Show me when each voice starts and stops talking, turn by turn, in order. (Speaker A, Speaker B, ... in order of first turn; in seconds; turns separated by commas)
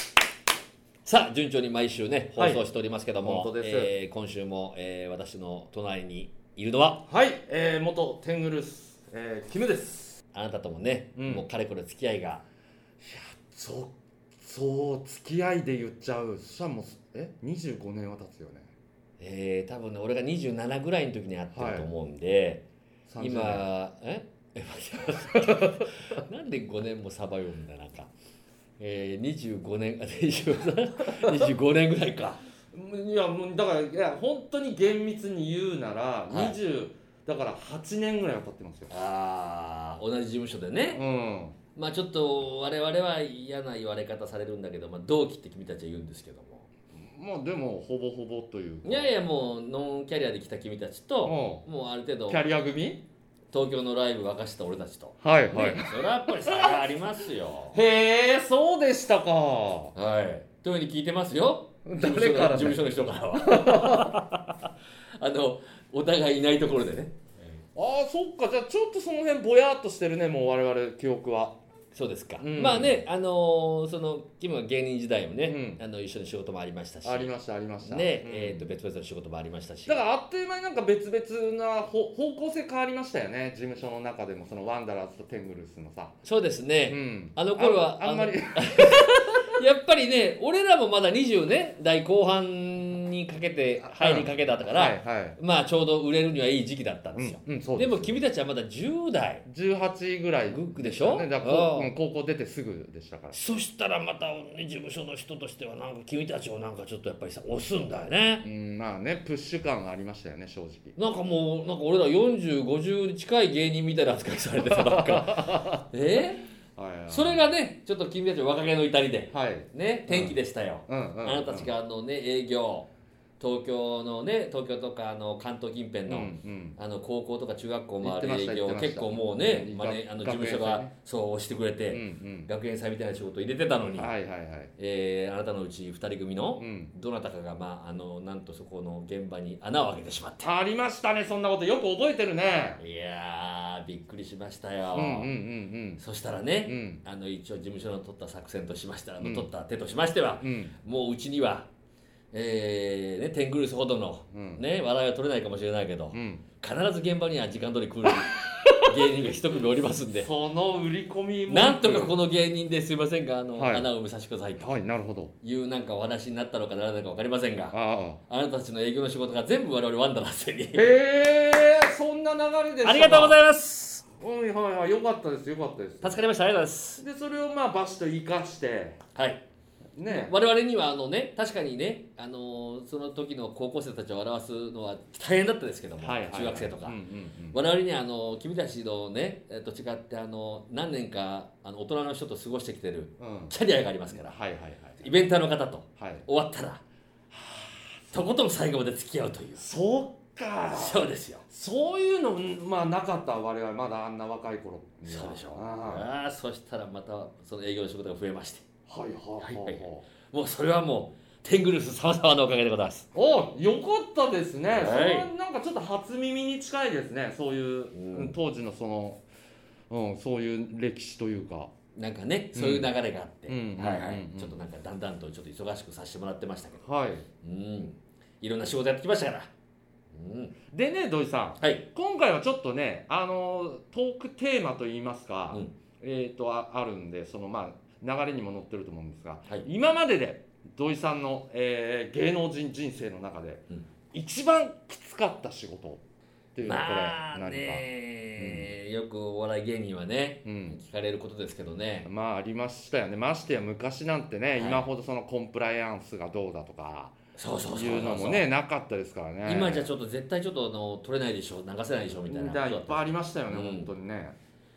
Speaker A: 1.1-7.0, Speaker B: 2.4-2.6, Speaker B: 3.2-3.9, Speaker B: 7.1-10.2, Speaker A: 10.3-12.4, Speaker B: 11.2-11.4, Speaker B: 13.0-18.7, Speaker A: 19.2-22.6, Speaker B: 21.5-21.9, Speaker B: 23.1-23.7, Speaker A: 23.2-28.1, Speaker B: 25.4-25.8, Speaker A: 28.8-32.4, Speaker B: 31.2-31.5, Speaker B: 32.7-38.9, Speaker A: 36.3-36.6, Speaker A: 38.9-41.0, Speaker B: 40.9-41.6, Speaker A: 41.8-46.7, Speaker B: 46.9-49.1, Speaker A: 48.9-52.4, Speaker B: 51.2-51.7, Speaker B: 52.3-53.0, Speaker A: 53.5-57.8, Speaker B: 55.2-56.8, Speaker B: 57.7-59.9, Speaker A: 60.0-64.5, Speaker B: 61.9-62.8, Speaker B: 63.3-64.2, Speaker A: 65.2-67.3, Speaker B: 67.8-71.6, Speaker A: 71.9-80.0, Speaker B: 72.4-73.0, Speaker B: 75.4-75.8, Speaker B: 77.0-78.7, Speaker B: 79.9-86.2, Speaker A: 86.2-99.4, Speaker B: 86.9-89.5, Speaker B: 93.8-95.4, Speaker B: 97.2-98.2, Speaker B: 99.5-103.4, Speaker A: 100.5-101.9, Speaker A: 103.3-108.5, Speaker B: 108.4-111.0, Speaker A: 111.0-116.5, Speaker B: 114.7-115.8, Speaker B: 116.8-117.4, Speaker A: 117.1-122.9, Speaker B: 119.3-121.7, Speaker A: 123.4-134.1, Speaker B: 126.1-126.8, Speaker B: 128.0-130.9, Speaker B: 131.9-132.5, Speaker B: 133.9-134.7, Speaker A: 134.8-140.5, Speaker B: 136.6-136.9, Speaker B: 140.4-142.8, Speaker A: 142.8-145.3, Speaker B: 144.9-146.0, Speaker A: 146.0-151.7, Speaker B: 146.7-147.0, Speaker B: 149.2-149.5, Speaker B: 150.4-150.8, Speaker A: 152.3-160.3, Speaker B: 154.3-154.6, Speaker B: 156.1-156.4, Speaker B: 158.1-158.8, Speaker B: 160.1-162.2, Speaker A: 161.5-164.7, Speaker B: 163.6-163.9, Speaker B: 164.6-165.3, Speaker A: 165.4-167.8, Speaker B: 167.7-168.2, Speaker A: 168.3-170.9, Speaker B: 170.7-173.4, Speaker A: 172.8-174.1, Speaker B: 174.2-176.2, Speaker A: 176.0-177.0, Speaker B: 177.0-179.0, Speaker A: 179.2-179.4, Speaker B: 180.0-180.4, Speaker A: 180.1-187.0, Speaker B: 186.0-187.6, Speaker A: 187.5-194.4, Speaker B: 193.2-193.6, Speaker B: 194.1-195.0, Speaker A: 195.0-196.8, Speaker B: 196.0-196.3, Speaker B: 197.3-197.9, Speaker A: 198.1-199.7, Speaker B: 199.6-206.1, Speaker A: 200.7-201.4, Speaker A: 205.1-208.7, Speaker B: 208.9-210.1, Speaker A: 209.4-213.1, Speaker B: 213.1-219.2, Speaker A: 214.7-215.3, Speaker A: 217.9-218.3, Speaker B: 219.9-221.7, Speaker A: 222.0-226.9, Speaker B: 222.6-222.9, Speaker B: 223.5-224.6, Speaker B: 226.8-227.3, Speaker A: 227.4-229.5, Speaker A: 230.1-230.6, Speaker B: 230.7-246.0, Speaker B: 246.6-247.8, Speaker A: 246.6-252.1, Speaker B: 248.4-248.7, Speaker B: 250.4-250.8, Speaker B: 252.1-257.1, Speaker A: 254.6-254.8, Speaker A: 257.4-258.5, Speaker B: 257.7-259.9, Speaker A: 259.4-263.9, Speaker B: 262.3-264.4